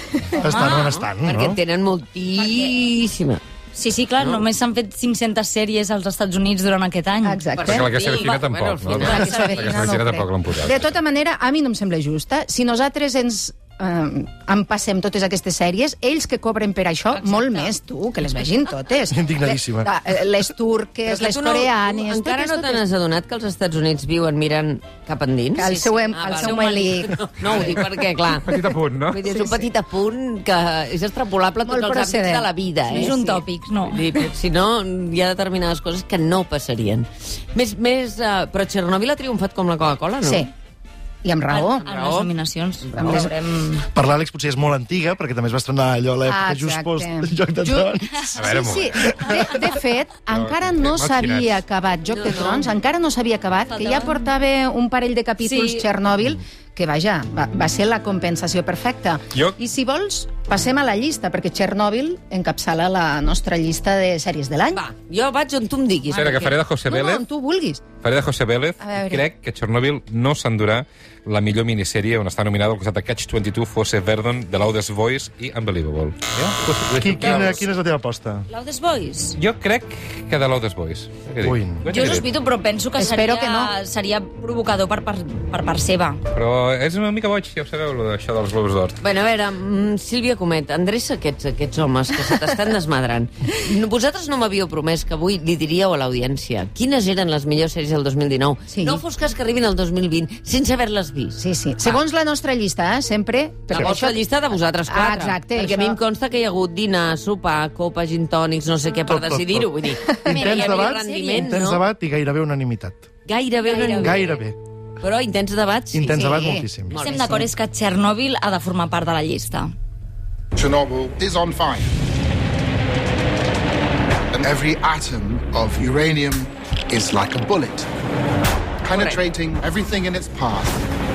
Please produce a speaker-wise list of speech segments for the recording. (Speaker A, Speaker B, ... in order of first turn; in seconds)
Speaker A: 0.3-1.6, 19.1-19.9, 43.9-49.5, 77.0-78.5, 81.4-81.8, 109.1-113.1, 114.0-114.6, 115.9-117.0
Speaker B: 0.5-0.8, 2.4-2.7, 3.8-7.4, 9.2-9.6, 17.1-17.8, 26.1-27.1, 32.9-34.1, 41.5-43.9, 53.7-54.3, 55.4-55.8, 77.2-77.5, 78.5-79.4, 81.9-86.2, 110.3-111.5, 113.7-114.3, 117.0-119.7
Speaker C: 0.5-3.4, 7.6-9.9, 21.1-40.5, 41.5-42.3, 42.9-43.2, 52.1-52.7, 64.7-66.6, 89.0-102.0, 103.7-111.8, 113.3-114.2, 115.0-116.3, 116.9-117.4, 128.9-129.2
Speaker D: 7.2-8.2, 8.9-22.8, 25.6-27.9, 29.3-29.6, 31.7-33.2, 40.2-40.5, 41.2-41.8, 43.0-43.3, 46.3-64.8, 66.9-67.8, 68.8-69.2, 83.0-83.7, 98.7-99.0, 101.4-104.2, 104.9-106.0, 116.1-116.7
Speaker E: 7.7-10.9, 28.4-29.2, 48.4-49.1, 50.3-51.6, 66.1-67.2, 68.0-77.7, 79.4-82.3, 86.3-89.0
Speaker F: 120.5-121.9, 124.3-127.9, 128.8-130.8